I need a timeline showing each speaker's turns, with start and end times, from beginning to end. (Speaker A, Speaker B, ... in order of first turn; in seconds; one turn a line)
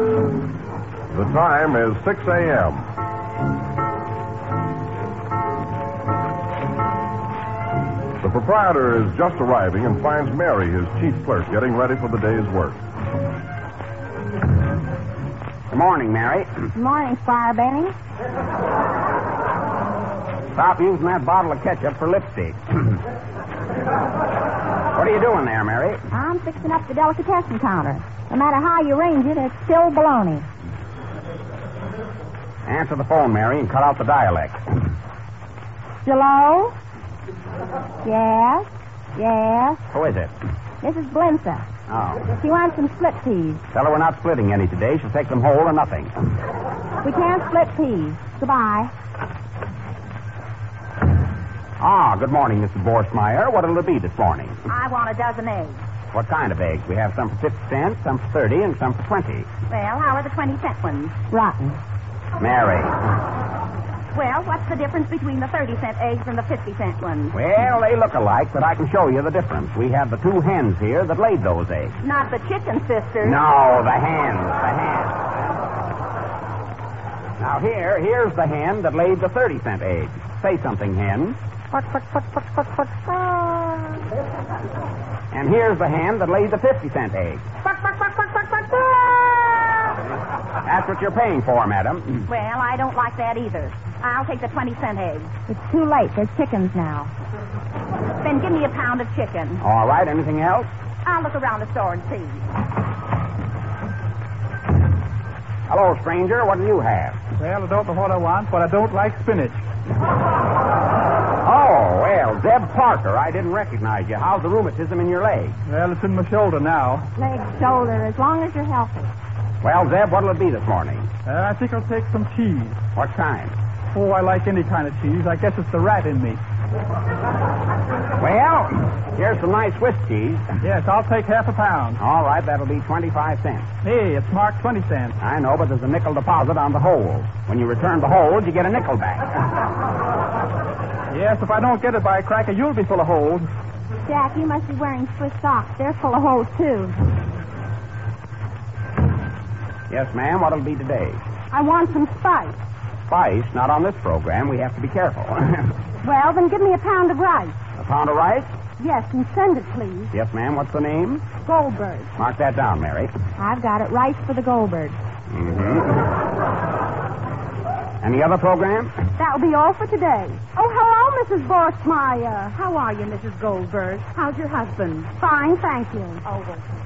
Speaker A: 1.1-2.9
Speaker A: 8.2-12.8
Speaker B: 15.7-16.7
Speaker C: 16.7-17.9
Speaker B: 20.5-23.0
Speaker B: 24.9-26.0
Speaker C: 26.1-30.4
Speaker B: 32.7-34.8
Speaker C: 36.0-36.7
Speaker C: 38.0-39.8
Speaker B: 39.9-40.3
Speaker C: 40.8-41.6
Speaker B: 41.9-42.3
Speaker C: 42.4-43.6
Speaker B: 43.7-46.1
Speaker C: 47.0-48.9
Speaker B: 51.8-54.6
Speaker D: 54.7-55.8
Speaker B: 56.1-59.5
Speaker D: 59.7-61.1
Speaker C: 61.3-61.8
Speaker B: 62.4-62.9
Speaker D: 64.1-67.4
Speaker B: 67.3-72.0
Speaker D: 72.0-73.4
Speaker B: 73.2-75.3
Speaker B: 77.4-81.4
Speaker C: 81.8-82.4
Speaker C: 83.1-83.9
Speaker B: 85.3-87.5
Speaker B: 90.6-92.3
Speaker D: 92.2-95.3
Speaker C: 95.5-97.1
Speaker D: 98.2-99.6
Speaker B: 99.6-100.7
Speaker D: 101.0-102.4
Speaker B: 105.7-107.2
Speaker E: 107.4-109.6
Speaker B: 111.4-115.6
Speaker E: 115.7-117.1
Speaker C: 117.2-119.1
Speaker B: 119.6-121.1
Speaker E: 121.2-122.8
Speaker B: 122.9-123.5
Speaker E: 123.9-126.4
Speaker B: 128.2-130.4
Speaker E: 130.6-132.0
Speaker B: 132.0-133.7
Speaker E: 133.8-135.1
Speaker B: 135.2-139.4
Speaker E: 141.1-143.5
Speaker C: 144.0-146.9
Speaker B: 149.9-151.2
Speaker C: 151.5-152.5
Speaker B: 153.1-155.7
Speaker C: 156.0-157.5
Speaker B: 157.8-158.5
Speaker D: 158.8-160.0
Speaker C: 159.3-160.1
Speaker B: 160.1-161.2
Speaker C: 161.5-162.0
Speaker B: 162.2-163.1
Speaker C: 163.4-165.0
Speaker B: 165.3-166.2
Speaker B: 168.0-168.9
Speaker C: 169.2-172.5
Speaker D: 172.5-175.2
Speaker C: 175.2-176.2
Speaker D: 176.3-176.6